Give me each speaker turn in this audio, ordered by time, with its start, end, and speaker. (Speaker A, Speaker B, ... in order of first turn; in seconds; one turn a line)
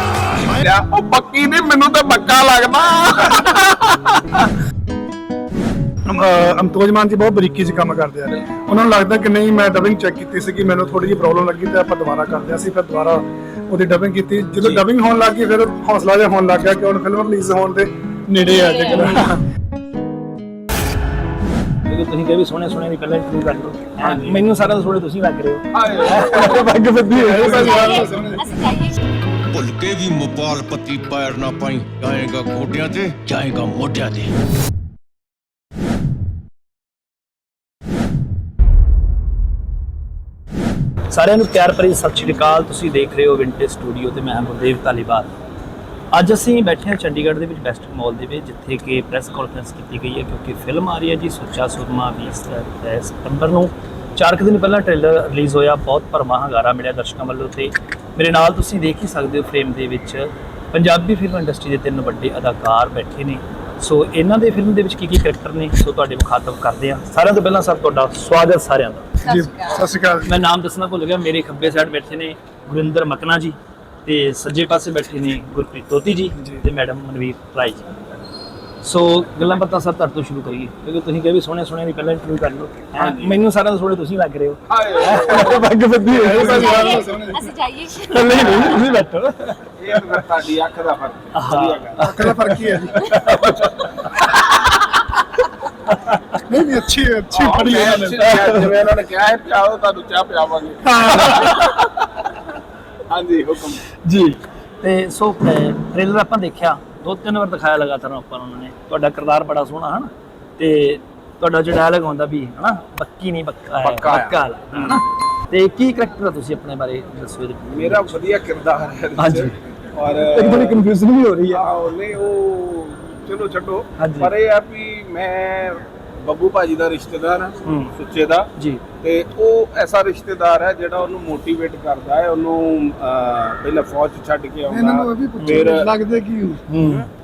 Speaker A: 0.4-4.5
Speaker B: 6.0-19.4
Speaker C: 18.4-19.1
Speaker D: 19.0-19.2
Speaker D: 21.8-27.9
Speaker A: 24.0-24.3
Speaker A: 25.7-26.7
Speaker B: 27.1-28.6
Speaker C: 27.5-29.0
Speaker E: 29.5-34.3
Speaker D: 41.1-45.3
Speaker D: 46.1-69.1
Speaker C: 69.2-69.8
Speaker B: 69.2-70.3
Speaker D: 70.2-77.9
Speaker B: 76.4-76.6
Speaker D: 78.8-87.1
Speaker A: 84.7-85.6
Speaker B: 86.1-87.4
Speaker C: 86.3-88.8
Speaker D: 88.1-90.0
Speaker A: 89.8-92.1
Speaker D: 91.3-93.9
Speaker B: 92.0-93.3
Speaker B: 96.5-98.7
Speaker A: 97.3-101.7
Speaker B: 100.8-101.6
Speaker A: 103.1-103.8
Speaker D: 103.9-118.2
Speaker A: 113.8-115.0
Speaker A: 117.7-120.8
Speaker D: 119.2-119.5
Speaker D: 120.3-121.6
Speaker A: 121.5-135.9
Speaker D: 124.0-124.3
Speaker D: 127.6-127.9
Speaker D: 128.6-128.8
Speaker B: 134.7-136.7
Speaker D: 135.4-135.8
Speaker D: 136.7-137.1